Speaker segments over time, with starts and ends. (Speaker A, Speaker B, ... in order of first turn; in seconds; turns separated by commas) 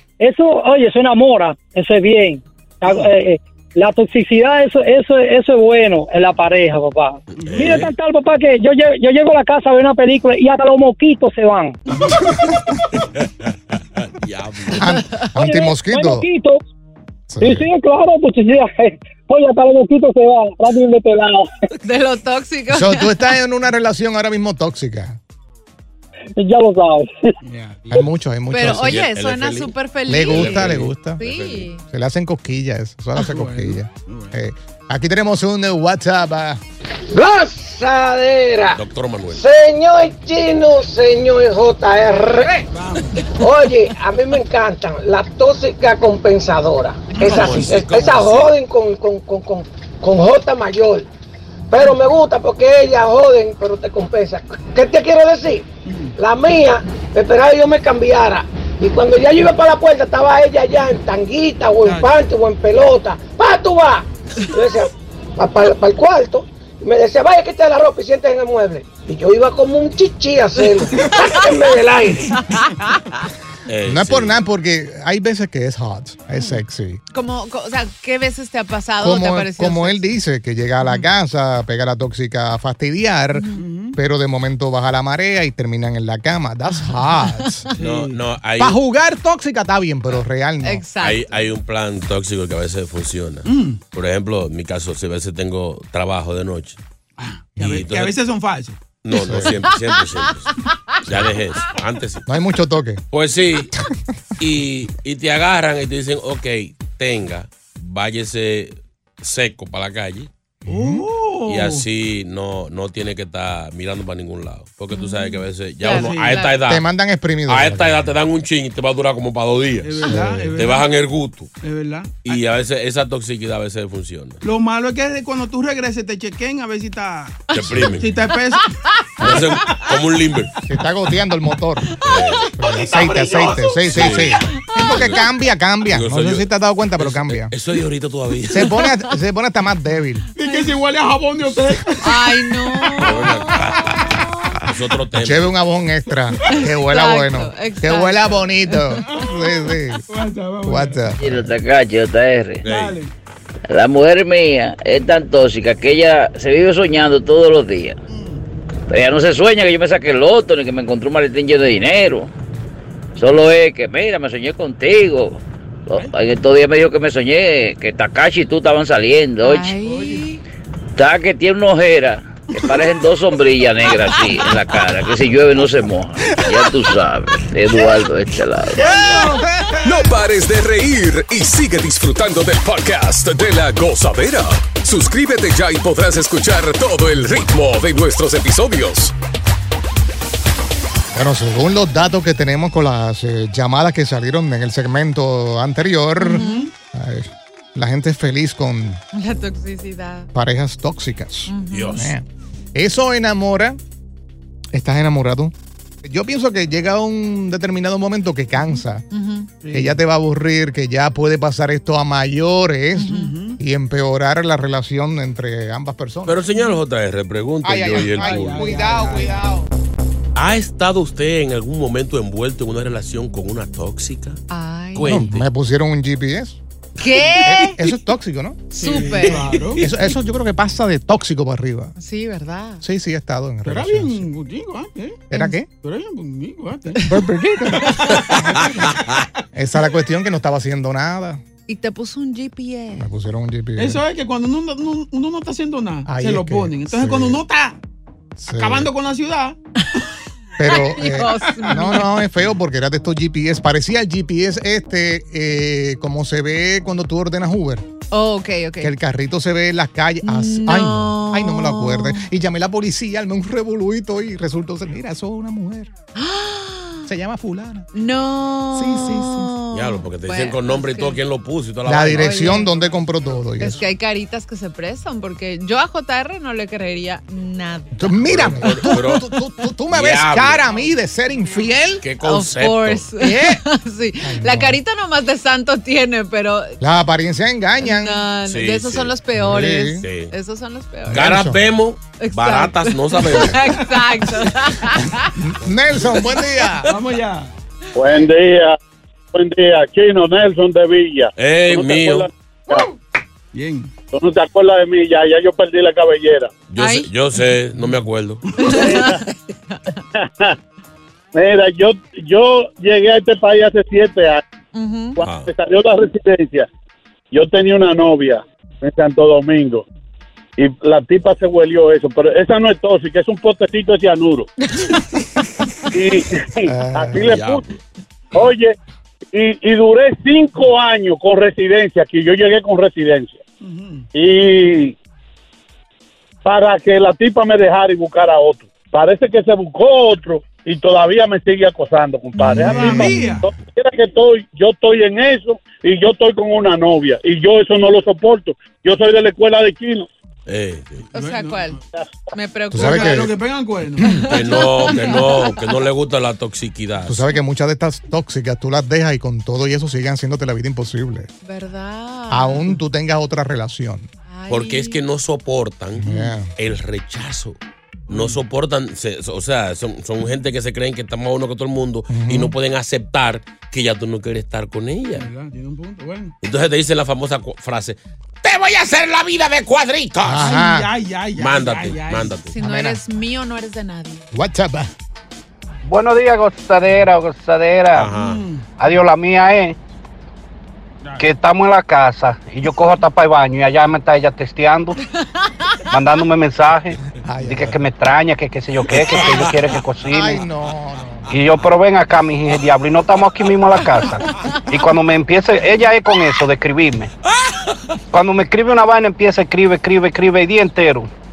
Speaker A: 0.2-11.8, Speaker B: 7.4-7.9, Speaker C: 7.4-7.8, Speaker B: 14.0-14.9, Speaker D: 14.7-16.2, Speaker A: 15.3-16.6, Speaker D: 17.3-17.7, Speaker A: 17.4-21.5, Speaker E: 21.8-23.2, Speaker D: 22.7-25.2, Speaker A: 26.4-27.3, Speaker C: 27.4-28.1, Speaker D: 27.9-29.0, Speaker E: 28.5-31.8, Speaker B: 28.6-31.7, Speaker D: 30.1-31.2, Speaker D: 31.9-36.6, Speaker C: 33.2-34.4, Speaker F: 37.1-42.7, Speaker B: 38.7-39.4, Speaker C: 42.7-43.1, Speaker F: 43.4-51.1, Speaker B: 47.2-48.5, Speaker F: 51.7-55.6, Speaker C: 55.9-56.1, Speaker F: 56.2-72.3, Speaker C: 61.8-62.1, Speaker E: 72.5-73.2, Speaker B: 73.7-74.3, Speaker D: 73.8-77.0, Speaker E: 77.1-80.0, Speaker D: 79.0-87.7, Speaker E: 83.3-83.6, Speaker C: 83.6-84.0, Speaker E: 86.7-87.8, Speaker C: 87.8-88.2, Speaker B: 87.8-88.8, Speaker D: 88.6-90.8, Speaker E: 90.6-91.3, Speaker B: 91.0-96.8, Speaker C: 93.4-93.8, Speaker C: 97.2-98.8, Speaker B: 97.6-98.1, Speaker B: 99.0-100.5, Speaker D: 99.1-99.5, Speaker E: 99.7-101.0, Speaker B: 101.0-102.2, Speaker D: 102.3-103.0, Speaker B: 103.1-103.7, Speaker B: 104.4-110.3, Speaker D: 110.6-111.0, Speaker C: 110.7-111.8, Speaker B: 111.5-116.8, Speaker E: 114.9-116.6, Speaker C: 115.8-116.5, Speaker D: 116.7-118.1, Speaker B: 117.5-121.5, Speaker C: 119.8-120.9, Speaker D: 120.1-120.6, Speaker C: 121.6-122.4, Speaker B: 122.2-124.4, Speaker C: 124.4-127.4, Speaker B: 127.5-128.1, Speaker D: 127.7-128.0, Speaker C: 127.9-128.7, Speaker E: 128.1-128.7, Speaker B: 129.2-130.5, Speaker D: 130.7-131.9, Speaker B: 132.0-132.5, Speaker D: 132.6-137.5, Speaker C: 132.6-134.3, Speaker B: 133.9-135.2, Speaker B: 135.9-138.8, Speaker D: 138.5-140.2, Speaker C: 140.3-142.3, Speaker E: 140.4-140.7, Speaker E: 142.0-143.4, Speaker B: 143.0-144.0, Speaker B: 144.7-145.5, Speaker D: 145.1-150.0, Speaker E: 146.5-149.0, Speaker C: 150.1-151.2, Speaker D: 150.7-151.5, Speaker G: 151.2-152.6, Speaker B: 152.6-153.0, Speaker C: 152.6-153.1, Speaker G: 153.7-158.0, Speaker C: 158.1-158.4, Speaker G: 158.9-162.3, Speaker G: 163.2-169.7, Speaker E: 169.4-170.4, Speaker C: 169.8-170.2, Speaker G: 171.0-179.0, Speaker C: 172.6-172.8, Speaker C: 173.9-174.8, Speaker C: 176.3-176.6, Speaker C: 178.7-180.0, Speaker H: 179.8-189.1, Speaker D: 191.1-199.0, Speaker E: 196.2-196.7, Speaker C: 196.4-196.7, Speaker E: 199.1-200.3, Speaker D: 200.3-203.8, Speaker E: 201.5-202.1, Speaker B: 201.7-202.1, Speaker D: 204.7-209.0, Speaker E: 209.1-209.6, Speaker C: 209.6-209.9, Speaker D: 209.7-216.4, Speaker E: 212.9-213.3, Speaker C: 213.2-213.6, Speaker B: 216.2-219.0, Speaker D: 217.6-219.7, Speaker C: 218.1-219.4, Speaker B: 220.3-224.4, Speaker E: 224.5-225.2, Speaker B: 224.9-225.4, Speaker D: 225.0-226.6, Speaker E: 227.0-227.8, Speaker D: 227.4-231.9, Speaker E: 228.7-229.7, Speaker C: 228.7-230.1, Speaker E: 232.0-232.8, Speaker D: 232.8-234.3, Speaker C: 233.6-237.0, Speaker D: 235.3-235.7, Speaker E: 235.3-235.6, Speaker D: 237.0-239.0, Speaker D: 239.5-241.4, Speaker E: 241.7-243.1, Speaker D: 242.9-244.0, Speaker C: 243.8-247.8, Speaker D: 246.1-247.4, Speaker D: 248.4-248.9, Speaker C: 248.5-249.6, Speaker D: 250.6-257.9, Speaker E: 250.6-252.1, Speaker E: 258.1-258.9, Speaker D: 258.8-265.9, Speaker E: 260.2-262.3, Speaker E: 266.1-267.1, Speaker D: 267.1-267.9, Speaker E: 267.9-271.2, Speaker D: 268.7-269.5, Speaker B: 269.7-272.6, Speaker D: 271.9-273.8, Speaker E: 272.1-272.7, Speaker E: 273.6-279.2, Speaker D: 277.9-282.0, Speaker B: 278.2-279.2, Speaker B: 279.9-280.6, Speaker B: 282.0-283.1, Speaker E: 282.2-286.8, Speaker D: 283.2-283.6, Speaker D: 284.2-284.8, Speaker D: 286.8-288.3, Speaker E: 287.8-291.4, Speaker B: 288.4-289.1, Speaker D: 289.4-290.0, Speaker B: 290.0-290.3, Speaker D: 291.1-291.6, Speaker B: 291.1-293.7, Speaker E: 292.2-295.3, Speaker D: 295.3-296.9, Speaker C: 296.9-297.5, Speaker I: 297.9-298.8, Speaker I: 299.3-302.9, Speaker B: 301.4-302.3, Speaker C: 303.5-303.9, Speaker I: 304.1-306.5, Speaker B: 306.7-308.7, Speaker E: 306.7-307.1, Speaker C: 307.8-308.0, Speaker E: 308.6-309.9, Speaker I: 310.2-310.5, Speaker I: 311.3-314.4, Speaker E: 314.7-315.2, Speaker I: 315.2-316.7, Speaker B: 315.2-315.5, Speaker I: 317.3-319.8, Speaker I: 320.6-324.5, Speaker I: 325.9-327.6, Speaker D: 326.6-327.3, Speaker B: 327.1-327.8, Speaker I: 328.3-328.7, Speaker I: 329.3-333.4, Speaker C: 333.6-334.1, Speaker I: 334.1-334.9, Speaker I: 336.4-350.1, Speaker C: 342.4-343.5, Speaker D: 342.5-343.1, Speaker B: 350.5-351.1, Speaker C: 351.1-351.8, Speaker E: 351.1-351.8, Speaker E: 352.3-353.3, Speaker D: 352.7-353.3, Speaker C: 352.7-354.2, Speaker E: 354.1-355.8, Speaker B: 354.3-357.2, Speaker D: 357.0-361.3, Speaker E: 361.4-362.7, Speaker D: 362.3-364.1, Speaker E: 364.3-365.0, Speaker B: 364.5-367.6, Speaker D: 366.0-366.5, Speaker C: 368.1-368.4, Speaker B: 368.1-375.3, Speaker D: 372.1-372.5, Speaker C: 375.1-376.3, Speaker B: 376.4-380.4, Speaker D: 380.2-380.9, Speaker C: 380.3-382.4, Speaker B: 381.4-382.5, Speaker E: 382.5-384.2, Speaker D: 382.6-383.0, Speaker D: 384.3-384.9, Speaker J: 385.8-388.1, Speaker B: 387.9-388.4, Speaker C: 388.1-388.6, Speaker J: 388.8-389.7, Speaker C: 391.0-391.3, Speaker J: 391.2-394.9, Speaker J: 395.9-400.4, Speaker D: 397.2-397.8, Speaker D: 400.0-401.3, Speaker J: 401.3-407.1, Speaker J: 408.1-411.1